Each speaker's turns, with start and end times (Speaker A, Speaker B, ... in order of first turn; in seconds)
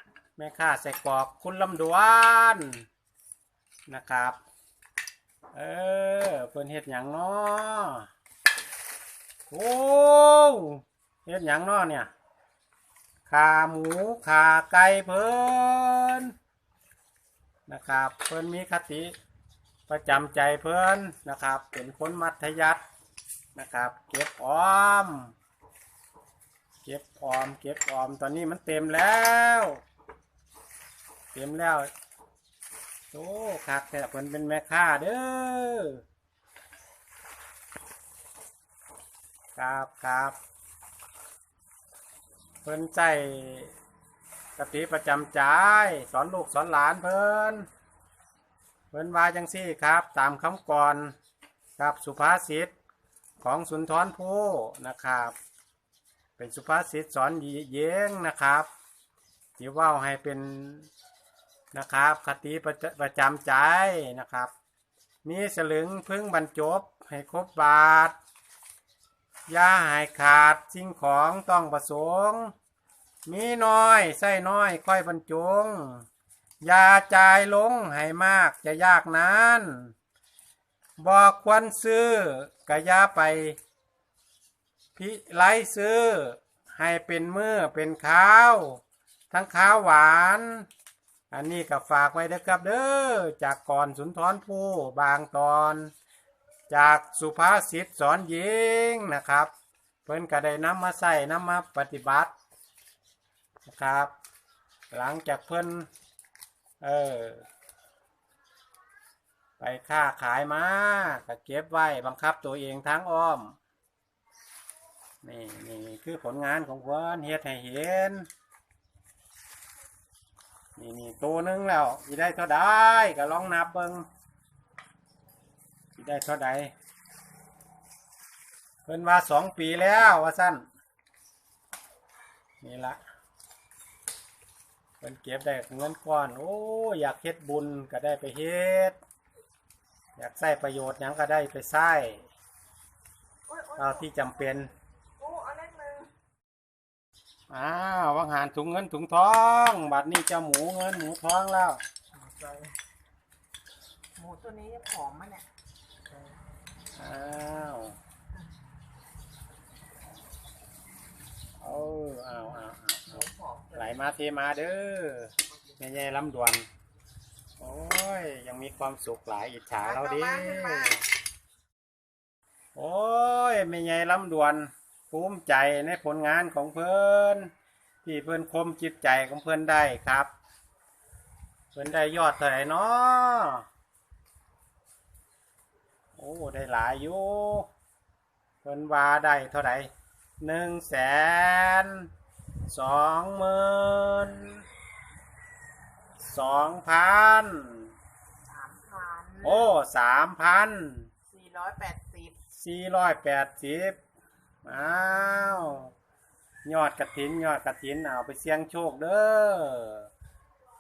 Speaker A: 0.4-2.8, 3.9-4.4, 5.5-8.1, 9.5-12.1, 13.3-16.3, 17.7-19.1, 19.9-22.8, 23.6-25.3, 26.9-29.8, 31.3-31.9, 33.1-36.0, 39.6-40.4, 42.6-43.7, 44.6-47.7, 48.9-51.1, 51.8-52.7, 53.4-55.4, 56.4-58.7, 59.6-60.9, 61.7-64.5, 65.2-68.2, 69.5-72.5, 73.3-76.1, 76.6-79.9, 81.0-83.6, 85.0-88.8, 89.3-90.7, 91.3-95.9, 96.7-99.5, 100.1-102.3, 103.7-104.1, 104.9-105.9, 106.8-107.5, 109.6-113.6, 115.2-118.3, 120.8-124.1, 126.0-126.7, 128.9-130.6, 132.6-133.0, 135.0-139.0, 140.2-142.3, 143.8-144.7, 147.5-151.8, 156.9-158.0, 161.6-166.7, 167.6-171.0, 172.8-177.5, 178.0-180.3, 181.7-183.7, 186.2-187.7, 188.6-192.1, 192.7-194.6, 196.2-197.9, 199.4-201.1, 202.6-204.0, 204.7-205.9, 206.7-210.1
Speaker B: 143.5-143.8, 145.2-146.1, 154.2-155.5, 169.8-171.0, 198.5-199.7, 201.3-202.4